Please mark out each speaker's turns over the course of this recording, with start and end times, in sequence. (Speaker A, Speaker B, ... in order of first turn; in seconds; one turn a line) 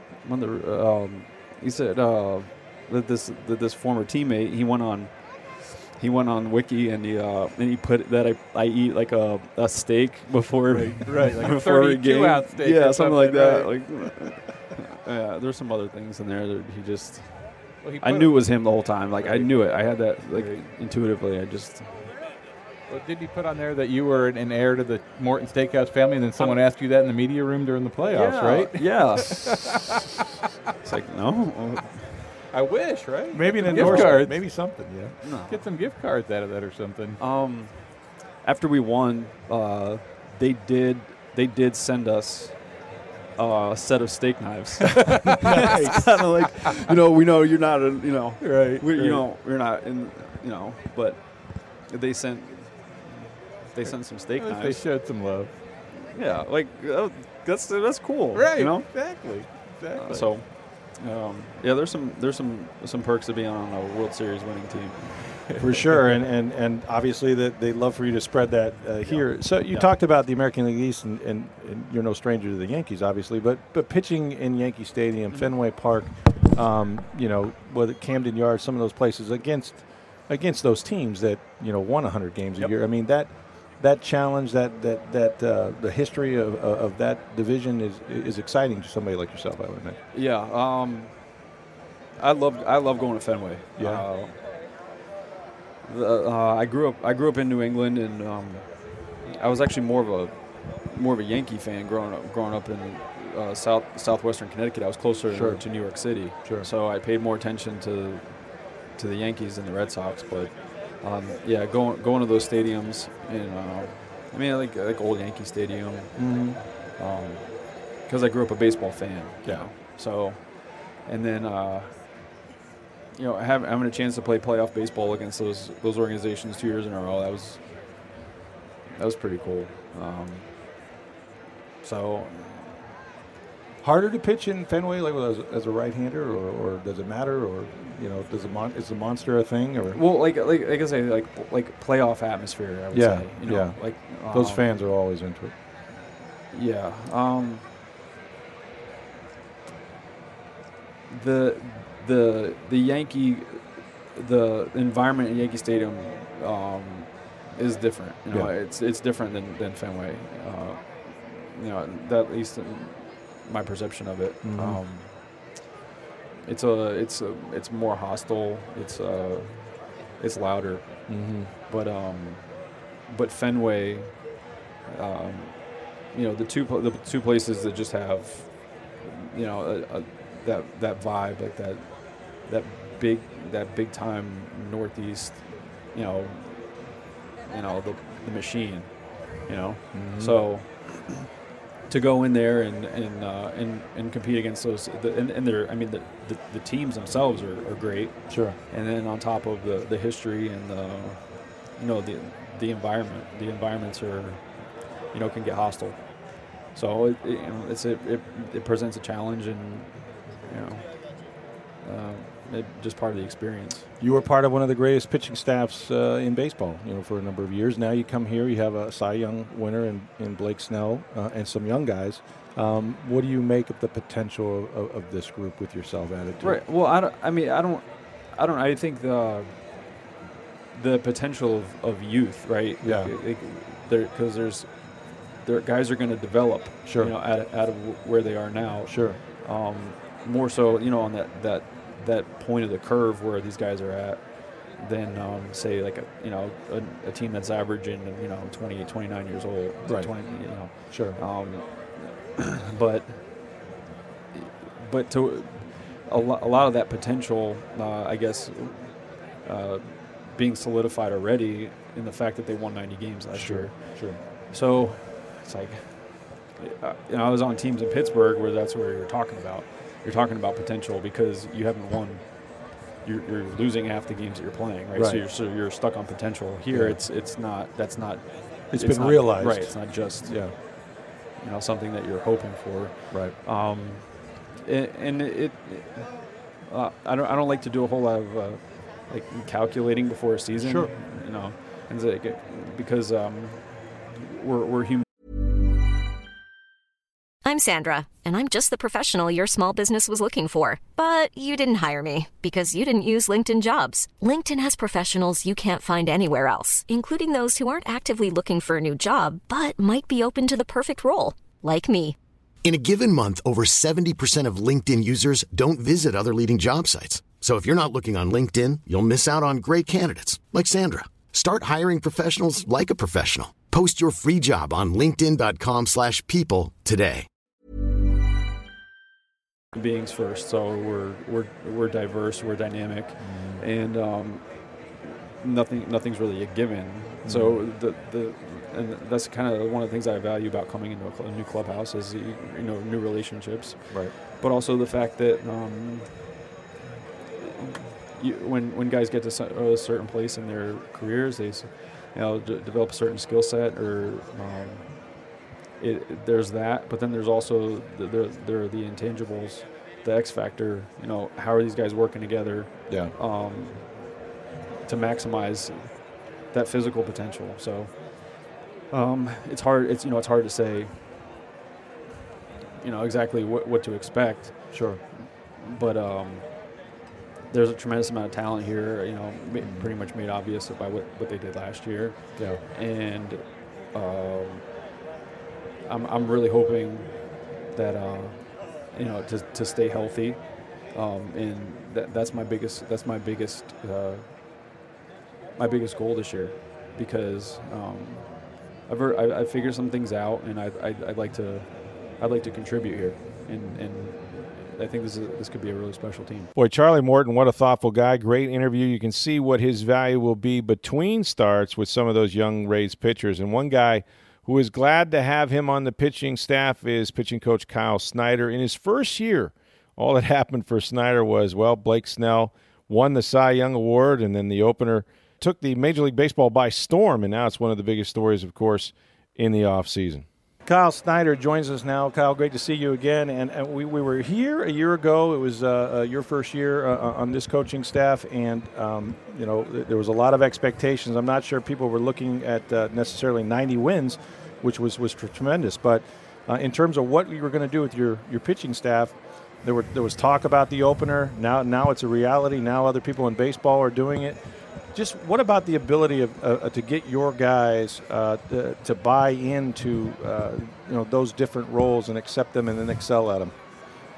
Speaker A: 0.2-22.1
Speaker B: 10.7-14.3
Speaker B: 17.8-20.6
Speaker B: 22.9-29.7
Speaker A: 26.4-26.6
Speaker A: 28.1-29.8
Speaker A: 30.8-32.3
Speaker B: 32.5-34.8
Speaker C: 33.3-35.1
Speaker A: 33.7-34.5
Speaker A: 35.2-35.7
Speaker B: 35.5-37.2
Speaker A: 37.2-54.9
Speaker C: 45.5-46.1
Speaker B: 48.4-49.2
Speaker B: 53.8-55.5
Speaker A: 56.0-65.5
Speaker B: 58.3-60.4
Speaker C: 65.6-90.0
Speaker B: 69.0-69.8
Speaker A: 90.1-91.5
Speaker A: 92.2-94.4
Speaker C: 93.8-94.1
Speaker A: 95.8-122.2
Speaker C: 105.3-106.7
Speaker C: 116.2-116.6
Speaker C: 119.4-119.7
Speaker A: 123.2-128.1
Speaker A: 129.0-130.5
Speaker A: 131.8-132.7
Speaker C: 133.8-140.0
Speaker A: 139.9-144.7
Speaker C: 142.9-145.5
Speaker A: 146.5-147.7
Speaker A: 151.1-165.5
Speaker C: 164.4-164.8
Speaker A: 166.4-191.2
Speaker C: 171.1-171.5
Speaker C: 189.9-190.4
Speaker A: 191.9-213.9
Speaker C: 198.3-198.6
Speaker C: 214.0-226.6
Speaker A: 226.4-230.0
Speaker A: 230.7-253.6
Speaker C: 232.8-233.1
Speaker C: 236.8-237.1
Speaker C: 238.9-239.2
Speaker C: 249.9-251.2
Speaker A: 254.3-295.1
Speaker C: 263.3-264.2
Speaker C: 274.9-275.2
Speaker C: 276.7-277.0
Speaker C: 278.7-280.6
Speaker C: 290.6-290.9
Speaker D: 297.4-312.2
Speaker E: 312.6-327.3
Speaker A: 329.7-346.4
Speaker C: 333.2-333.6
Speaker C: 337.2-337.6
Speaker A: 347.4-364.2
Speaker A: 364.8-371.3
Speaker A: 372.8-376.9
Speaker C: 374.7-375.0
Speaker A: 377.5-384.7
Speaker C: 379.6-379.9
Speaker A: 385.9-394.3
Speaker A: 395.6-406.5
Speaker C: 406.6-454.4
Speaker C: 454.9-463.5